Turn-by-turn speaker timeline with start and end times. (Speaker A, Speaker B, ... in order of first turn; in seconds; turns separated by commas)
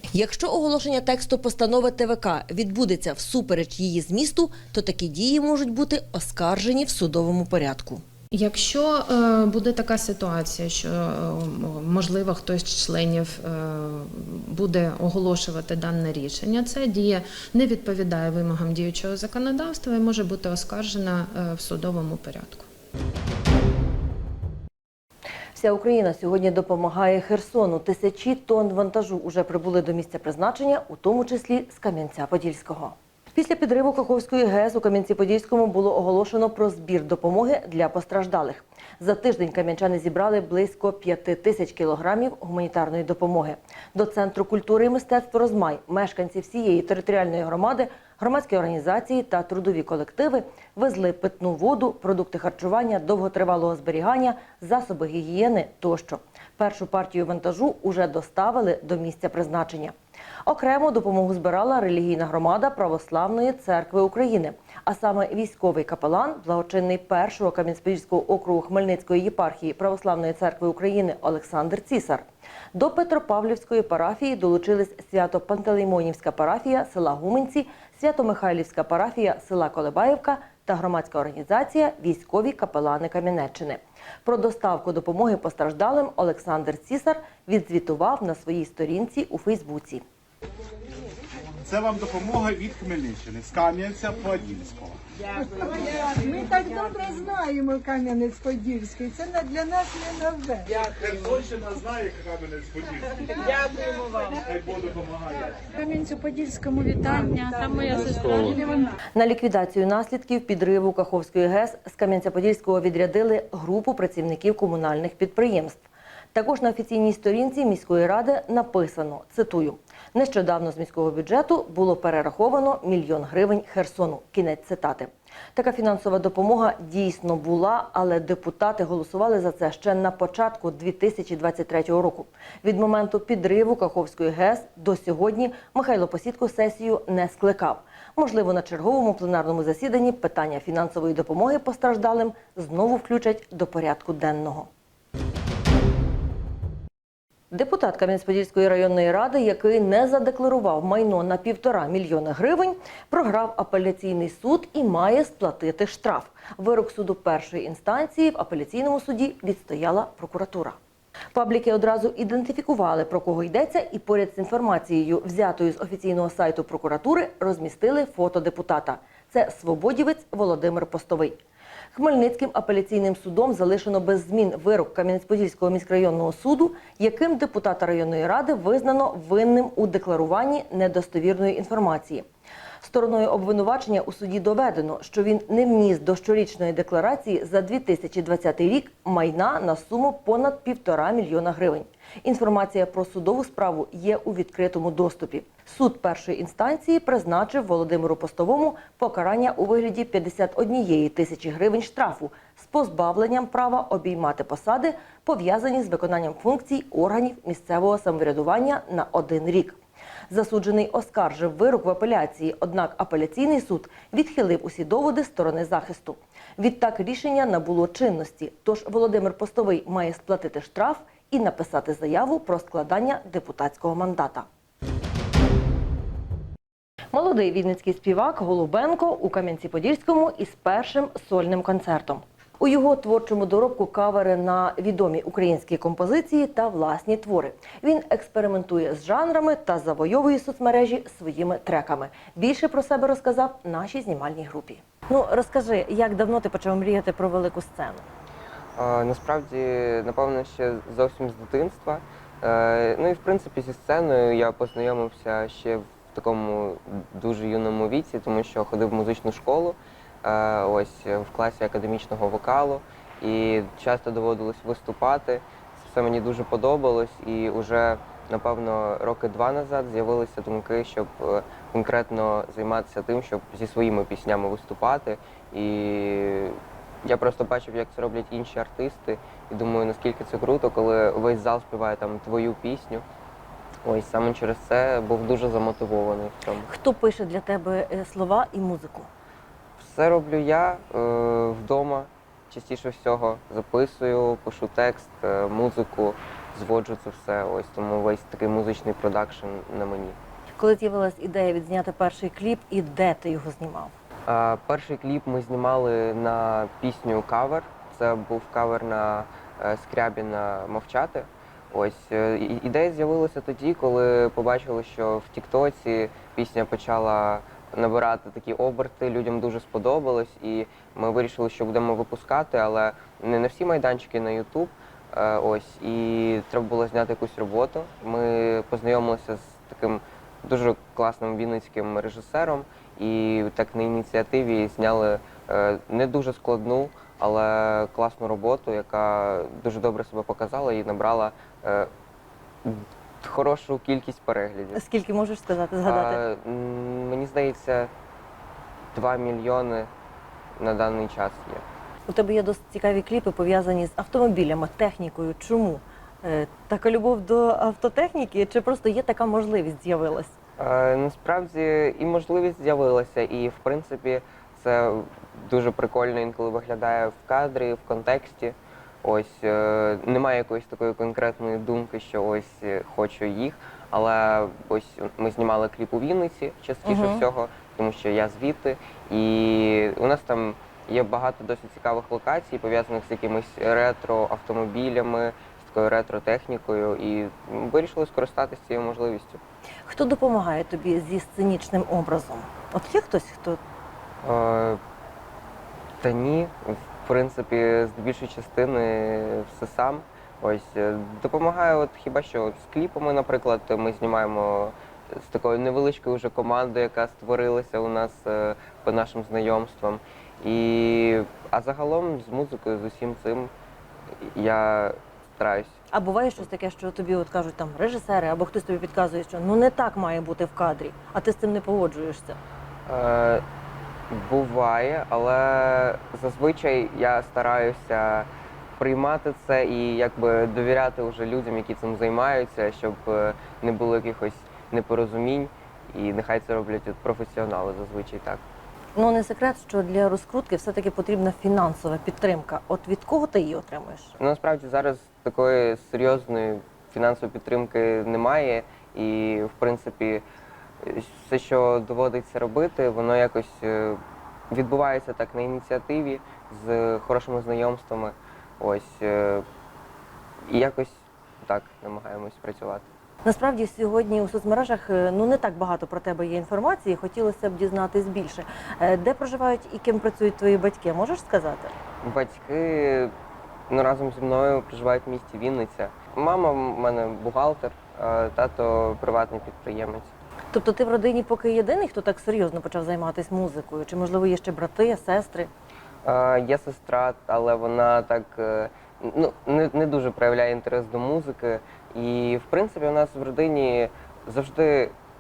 Speaker A: 0.1-8.0, Speaker B: 8.3-22.7, Speaker A: 25.6-59.9, Speaker A: 60.5-90.0, Speaker C: 91.7-95.0, Speaker D: 96.2-100.5, Speaker C: 101.0-102.9, Speaker C: 104.6-105.3, Speaker E: 106.0-108.7, Speaker A: 109.2-115.8, Speaker A: 116.3-144.7, Speaker A: 147.5-160.8, Speaker A: 161.3-171.4, Speaker A: 171.9-182.2, Speaker A: 182.8-209.8, Speaker A: 210.3-224.5, Speaker A: 227.1-248.0, Speaker F: 248.8-283.0, Speaker F: 283.9-286.7, Speaker A: 286.7-289.1, Speaker F: 289.8-300.2, Speaker A: 300.6-303.9, Speaker F: 304.3-341.9, Speaker F: 342.6-344.8, Speaker A: 344.8-346.2, Speaker F: 345.9-347.9, Speaker F: 348.9-349.9, Speaker F: 350.6-351.6, Speaker A: 352.1-360.3, Speaker F: 360.6-389.4, Speaker A: 376.9-377.2, Speaker A: 389.9-393.6, Speaker F: 394.2-394.8, Speaker F: 396.0-413.5, Speaker F: 414.2-415.8, Speaker A: 415.9-422.4, Speaker F: 422.9-423.4, Speaker F: 424.1-438.4, Speaker A: 439.0-444.1, Speaker F: 444.2-450.2, Speaker F: 450.8-454.0, Speaker F: 454.5-459.4, Speaker F: 460.5-462.9, Speaker A: 463.2-471.7, Speaker F: 472.0-473.1, Speaker F: 473.7-480.1, Speaker A: 480.5-485.5, Speaker F: 486.1-494.9